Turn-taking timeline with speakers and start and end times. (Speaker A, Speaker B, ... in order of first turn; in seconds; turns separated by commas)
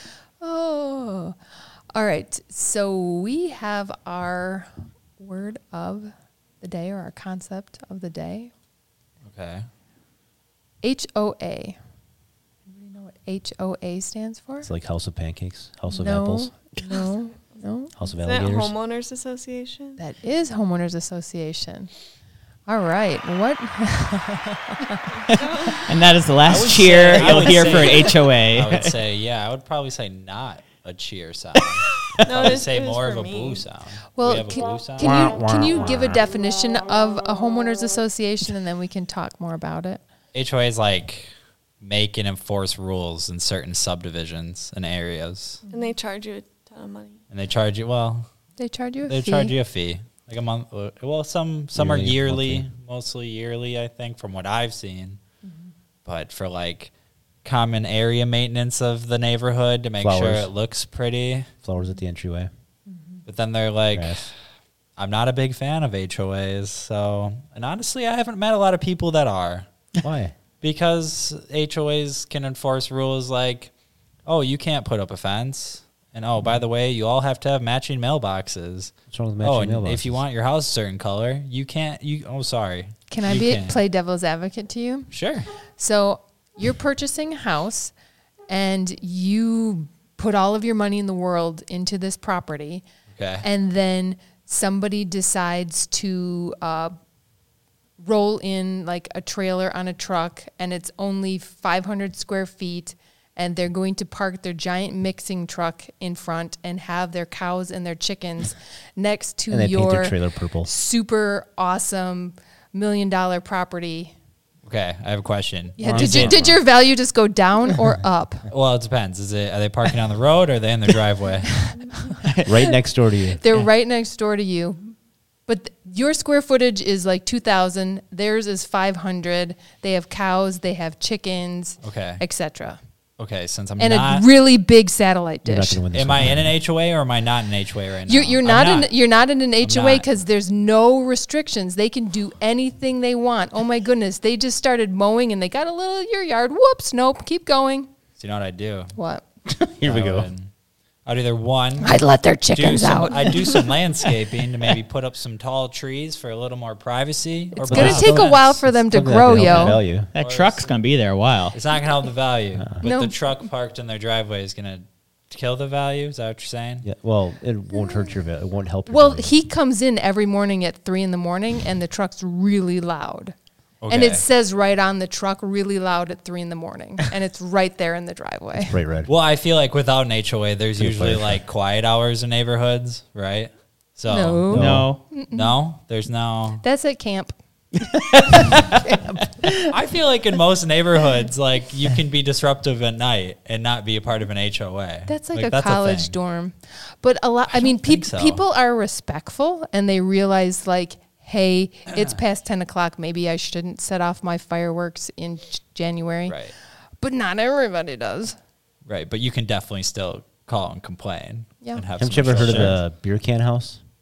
Speaker A: 0.4-1.4, Speaker A: 1.9-8.5, Speaker B: 9.2-9.7, Speaker A: 10.8-11.8, Speaker A: 12.7-14.7, Speaker C: 14.6-16.6, Speaker A: 15.9-17.9, Speaker C: 17.9-18.7, Speaker D: 18.2-20.0, Speaker A: 20.0-21.9, Speaker A: 22.7-25.1, Speaker E: 25.3-29.0, Speaker D: 25.4-25.8, Speaker B: 26.4-35.2, Speaker D: 32.2-33.6, Speaker A: 34.2-40.0, Speaker C: 35.0-36.2, Speaker B: 40.3-41.3, Speaker B: 41.8-45.6, Speaker A: 45.6-45.9, Speaker D: 45.7-47.2, Speaker B: 47.3-48.3, Speaker A: 48.6-49.5, Speaker B: 49.1-55.2, Speaker C: 51.7-52.7, Speaker B: 56.1-56.9, Speaker B: 57.4-61.5, Speaker C: 60.0-60.5, Speaker C: 61.6-62.5, Speaker A: 62.9-63.2, Speaker B: 63.3-64.3, Speaker C: 63.9-64.3, Speaker B: 65.0-69.7, Speaker C: 70.0-70.3, Speaker B: 70.6-73.7, Speaker B: 74.3-83.8, Speaker C: 79.1-80.2, Speaker A: 83.1-85.1, Speaker B: 85.1-85.5, Speaker A: 85.7-87.9, Speaker A: 88.5-92.8, Speaker B: 93.1-93.5, Speaker A: 93.4-96.9, Speaker A: 98.0-114.1, Speaker C: 109.5-110.7, Speaker B: 114.7-116.5, Speaker A: 115.8-118.5, Speaker C: 115.8-116.6, Speaker B: 118.5-121.6, Speaker E: 122.2-122.6, Speaker C: 122.4-123.4, Speaker A: 123.4-125.0, Speaker A: 125.5-132.8, Speaker B: 131.8-132.2, Speaker B: 133.2-134.3, Speaker A: 133.8-135.8, Speaker C: 135.4-136.5, Speaker B: 135.9-138.9, Speaker A: 138.1-147.9, Speaker B: 139.6-140.1, Speaker B: 148.2-148.9, Speaker A: 149.0-149.2, Speaker C: 149.5-150.3, Speaker B: 149.8-150.5, Speaker B: 151.1-152.0, Speaker A: 151.8-153.7, Speaker B: 152.5-158.6, Speaker A: 157.6-159.8, Speaker C: 157.7-160.1, Speaker E: 157.7-158.2, Speaker E: 160.1-161.6, Speaker B: 160.2-160.7, Speaker B: 161.5-166.9, Speaker A: 162.8-163.2, Speaker C: 166.8-169.3, Speaker A: 168.9-173.3, Speaker B: 173.8-174.2, Speaker A: 173.9-178.8, Speaker C: 178.6-179.1, Speaker B: 179.1-186.6, Speaker C: 180.8-181.4, Speaker A: 184.1-185.6, Speaker C: 184.5-184.9, Speaker E: 184.5-185.0, Speaker A: 186.6-187.3, Speaker E: 187.8-188.8, Speaker A: 188.4-189.0, Speaker B: 189.7-196.2, Speaker A: 195.1-206.4, Speaker B: 197.5-198.4, Speaker B: 206.3-206.5, Speaker A: 207.0-208.4, Speaker B: 208.9-212.8, Speaker C: 212.0-213.8